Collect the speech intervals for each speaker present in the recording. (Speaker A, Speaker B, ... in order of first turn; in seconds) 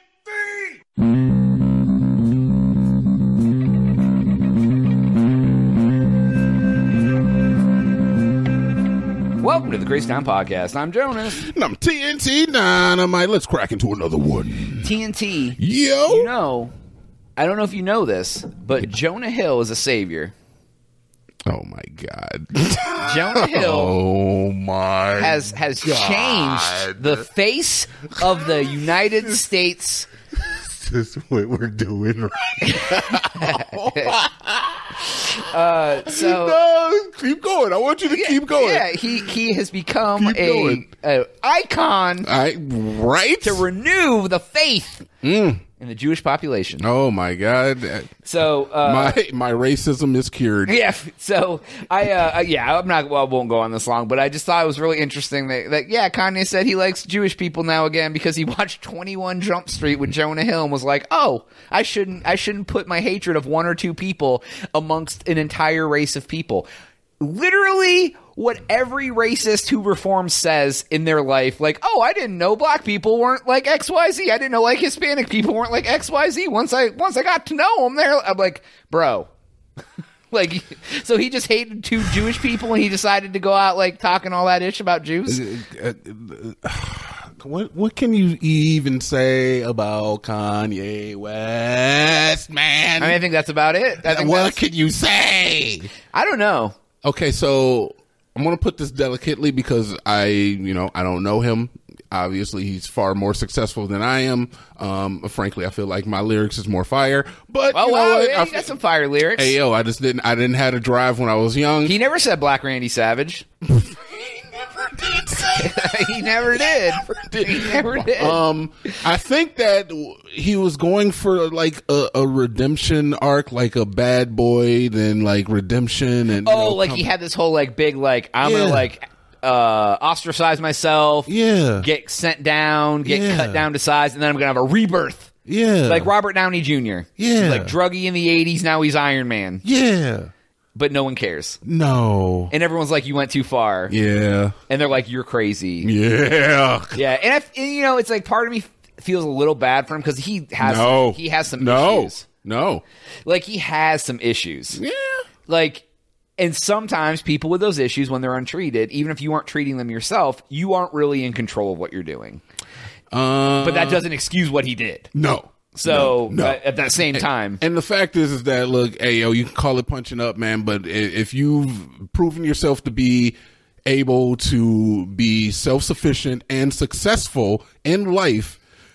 Speaker A: 0.3-0.6, 11.2-14.9, 15.6-16.3, 21.4-27.2, 28.2-28.9, 30.4-35.4, 36.0-39.3, 40.1-40.8, 42.2-43.6, 45.2-45.6, 46.8-48.1, 48.8-50.8, 85.3-93.2, 94.0-95.9, 97.0-108.8, 109.3-112.0, 113.6-127.0, 128.4-128.9, 131.3-131.9, 133.0-133.7, 135.4-136.1, 137.2-137.7, 139.6-140.3, 141.6-142.5, 143.9-144.5, 145.8-147.0, 150.6-152.8, 154.7-155.2, 163.1-164.1, 165.1-178.6
Speaker B: 9.4-11.4, 14.8-16.7, 17.4-20.3, 23.0-23.9, 25.1-30.1, 32.6-34.1, 35.3-36.6, 38.1-42.3, 43.4-45.1, 45.8-46.8, 48.2-49.2, 50.7-66.7, 67.2-79.3, 80.3-85.4, 93.0-94.6, 96.1-96.7, 107.7-109.5, 111.8-113.5, 115.5-118.4, 126.4-135.3, 135.9-139.6, 140.7-141.6, 142.5-143.9, 144.7-145.9, 146.9-152.2, 153.2-154.8, 155.5-155.8, 156.4-162.4, 163.6-165.1, 165.7-167.6